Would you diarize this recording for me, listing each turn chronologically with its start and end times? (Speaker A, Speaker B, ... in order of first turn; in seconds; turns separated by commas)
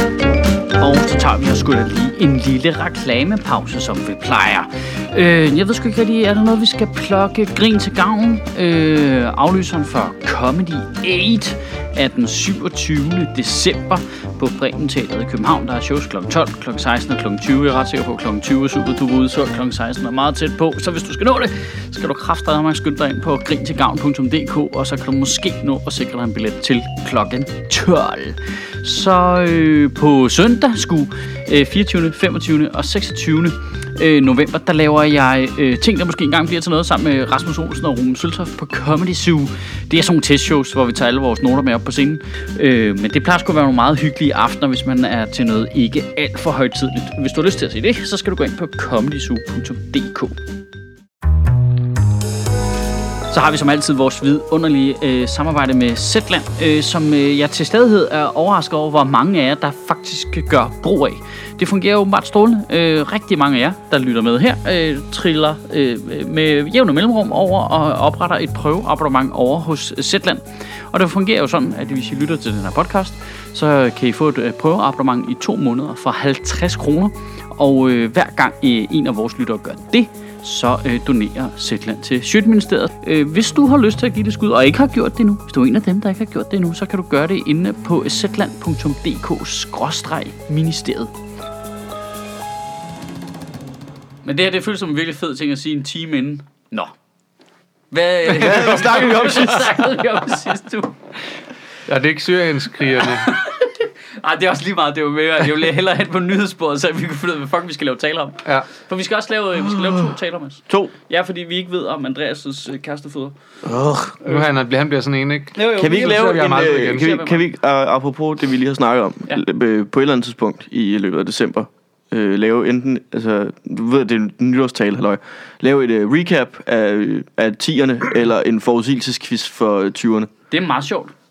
Speaker A: 0.8-50.4, Speaker A: 53.3-91.1, Speaker A: 94.2-96.9, Speaker A: 97.9-101.0, Speaker B: 98.4-99.7, Speaker C: 98.4-99.1, Speaker C: 101.9-103.3, Speaker A: 103.0-113.3, Speaker B: 113.6-114.2, Speaker C: 114.2-117.2, Speaker A: 115.5-117.4, Speaker B: 115.7-130.3, Speaker A: 130.5-131.1